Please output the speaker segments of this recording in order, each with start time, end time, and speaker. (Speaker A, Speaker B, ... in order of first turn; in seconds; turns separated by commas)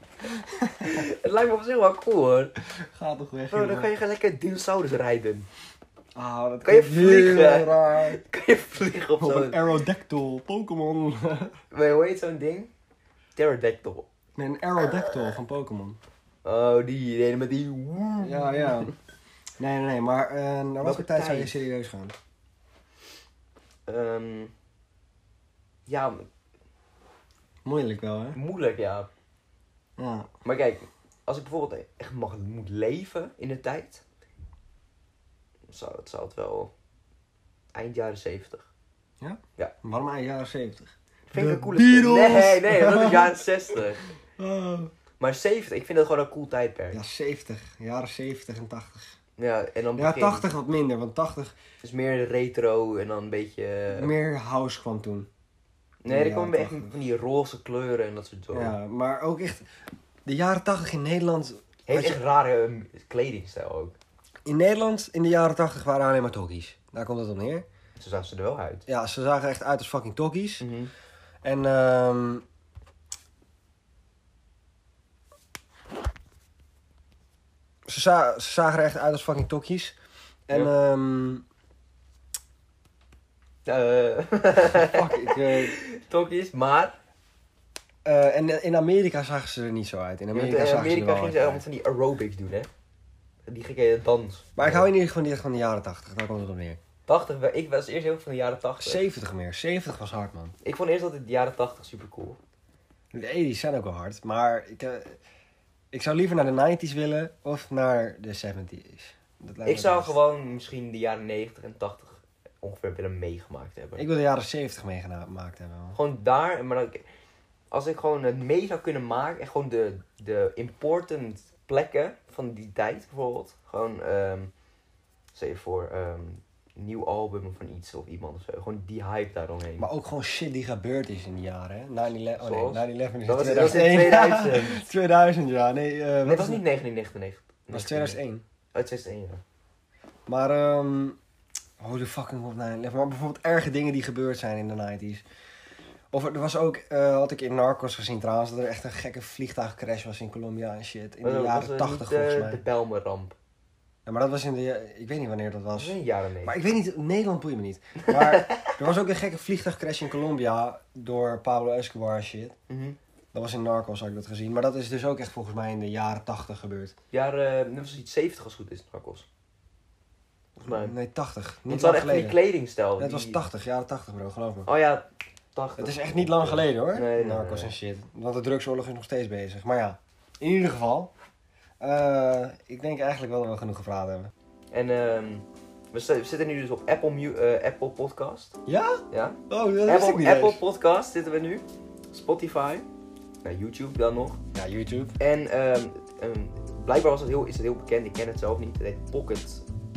Speaker A: 0.3-1.1, Speaker B: 0.8-2.5, Speaker A: 2.8-3.9, Speaker B: 3.5-5.5, Speaker A: 6.2-8.2, Speaker B: 6.6-9.6, Speaker A: 9.2-11.5, Speaker B: 11.7-12.7, Speaker B: 13.3-14.1, Speaker A: 14.3-16.0, Speaker B: 14.8-15.1, Speaker B: 16.4-18.9, Speaker A: 18.2-18.9, Speaker A: 19.6-22.1, Speaker B: 20.8-21.6, Speaker B: 23.9-24.5, Speaker B: 25.9-26.2, Speaker A: 27.6-28.4, Speaker B: 28.3-29.1, Speaker A: 30.0-30.3, Speaker B: 30.4-34.0, Speaker B: 35.7-36.7, Speaker B: 37.7-38.7, Speaker A: 39.2-43.8, Speaker B: 41.3-44.1, Speaker A: 44.4-44.9, Speaker B: 45.2-47.0, Speaker A: 46.9-49.1, Speaker B: 49.4-50.5, Speaker A: 50.0-51.5, Speaker B: 51.8-54.1, Speaker A: 53.9-55.3, Speaker B: 56.0-58.8, Speaker A: 56.1-56.9, Speaker A: 58.5-59.6, Speaker A: 60.2-62.2, Speaker B: 61.9-64.0, Speaker A: 64.4-67.7, Speaker B: 68.0-68.9, Speaker A: 68.9-70.6, Speaker B: 70.6-70.9, Speaker A: 71.4-72.4, Speaker A: 77.9-80.0, Speaker A: 80.5-81.4, Speaker B: 83.6-86.9, Speaker A: 84.7-85.8, Speaker A: 88.0-91.6, Speaker B: 90.3-92.7, Speaker B: 93.5-94.9, Speaker A: 94.5-96.8, Speaker B: 97.1-99.0, Speaker A: 98.8-100.5, Speaker B: 100.6-102.4, Speaker A: 103.1-105.2, Speaker A: 105.9-110.1, Speaker B: 109.6-114.1, Speaker A: 114.0-116.0, Speaker B: 115.9-117.0, Speaker B: 117.7-124.5, Speaker B: 125.3-129.9, Speaker A: 129.8-136.6, Speaker B: 132.4-134.8, Speaker B: 136.2-138.2, Speaker A: 137.7-138.4, Speaker B: 138.7-139.4, Speaker A: 140.3-141.2, Speaker A: 141.8-145.2, Speaker A: 146.1-152.6, Speaker B: 151.2-153.3, Speaker A: 154.1-162.5, Speaker B: 155.8-156.6, Speaker B: 158.0-158.8, Speaker B: 162.7-163.0, Speaker A: 163.3-166.9, Speaker B: 167.1-169.3, Speaker B: 170.6-170.9, Speaker A: 170.7-172.4, Speaker B: 171.7-173.4, Speaker A: 173.0-174.7, Speaker B: 174.7-175.0, Speaker B: 175.5-177.7, Speaker A: 175.8-181.1, Speaker A: 181.8-184.3, Speaker B: 184.7-188.6, Speaker A: 188.7-190.6, Speaker B: 189.1-192.8, Speaker B: 193.4-194.4, Speaker A: 194.5-195.1, Speaker B: 195.2-199.6